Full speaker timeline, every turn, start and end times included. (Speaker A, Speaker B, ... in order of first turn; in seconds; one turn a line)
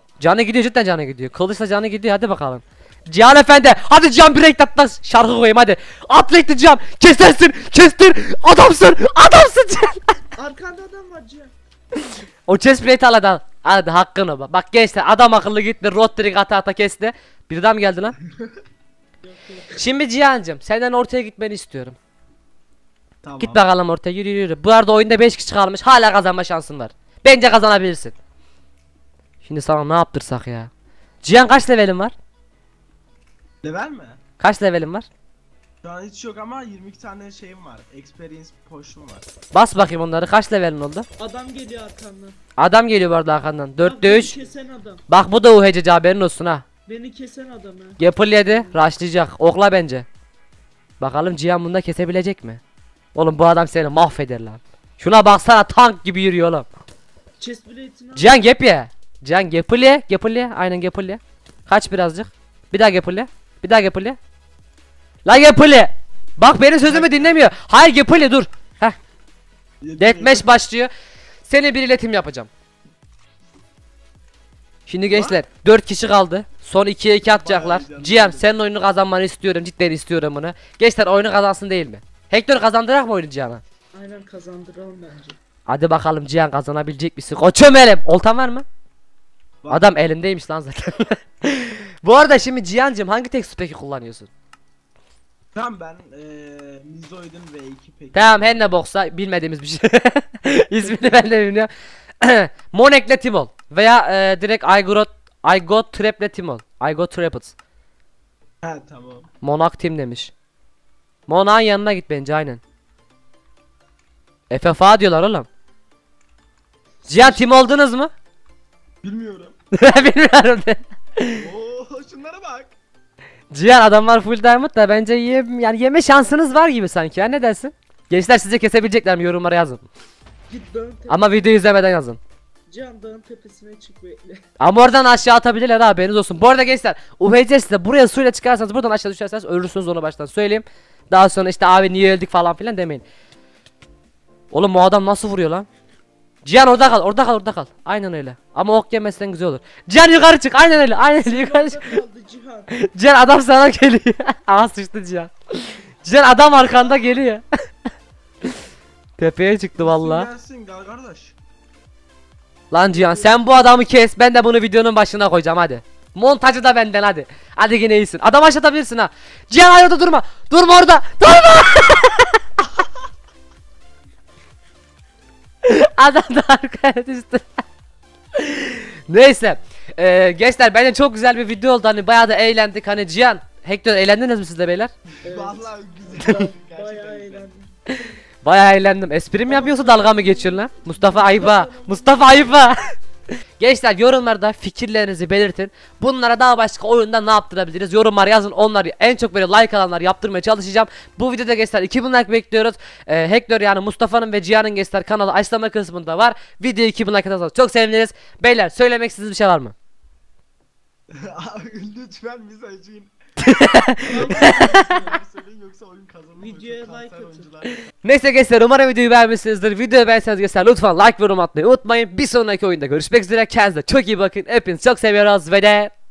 Speaker A: 0.2-10.2
Speaker B: 10.4-11.5
Speaker A: 12.5-18.1
Speaker B: 19.2-19.8
Speaker A: 19.7-22.0
Speaker C: 23.2-23.6
Speaker A: 23.4-28.1
Speaker A: 29.4-30.7
Speaker A: 31.2-32.1
Speaker C: 33.6-34.2
Speaker A: 34.4-35.1
Speaker C: 35.8-39.3
Speaker A: 39.5-41.1
Speaker B: 41.2-42.4
Speaker A: 42.6-44.4
Speaker B: 43.8-45.0
Speaker A: 45.1-46.6
Speaker B: 46.9-48.8
Speaker A: 48.0-50.1
Speaker A: 51.0-52.6
Speaker A: 53.1-56.7
Speaker B: 57.4-58.5
Speaker A: 58.2-64.2
Speaker A: 65.3-69.0
Speaker C: 66.8-67.4
Speaker C: 69.8-70.5
Speaker A: 70.0-70.9
Speaker A: 71.5-72.5
Speaker A: 74.9-83.6
Speaker C: 75.1-75.4
Speaker C: 77.2-78.5
Speaker B: 83.9-85.4
Speaker A: 85.7-88.7
Speaker C: 89.6-89.9
Speaker A: 89.7-94.3
Speaker C: 95.5-98.7
Speaker A: 98.1-101.7
Speaker A: 102.2-107.5
Speaker C: 108.6-109.3
Speaker A: 109.4-110.3
Speaker A: 111.3-112.6
Speaker A: 114.5-115.5
Speaker B: 117.0-117.7
Speaker A: 117.1-118.1
Speaker C: 119.0-119.5
Speaker A: 119.8-121.4
Speaker C: 121.3-122.8
Speaker A: 123.5-129.8
Speaker B: 130.5-131.6
Speaker A: 131.1-132.2
Speaker B: 132.7-134.4
Speaker A: 134.6-143.0
Speaker A: 144.5-145.7
Speaker A: 146.4-152.0
Speaker B: 151.2-152.7
Speaker A: 152.7-157.4
Speaker B: 156.7-157.0
Speaker A: 159.2-160.3
Speaker C: 159.8-161.3
Speaker A: 162.7-172.4
Speaker B: 162.9-163.4
Speaker A: 175.6-177.5
Speaker A: 178.4-184.9
Speaker C: 185.2-187.4
Speaker B: 185.2-187.7
Speaker A: 188.4-192.9
Speaker B: 189.5-192.7
Speaker C: 191.4-192.4
Speaker A: 193.6-209.7
Speaker C: 211.1-213.1
Speaker A: 213.4-214.8
Speaker B: 214.0-215.2
Speaker C: 214.1-217.8
Speaker B: 216.4-217.5
Speaker A: 218.0-225.9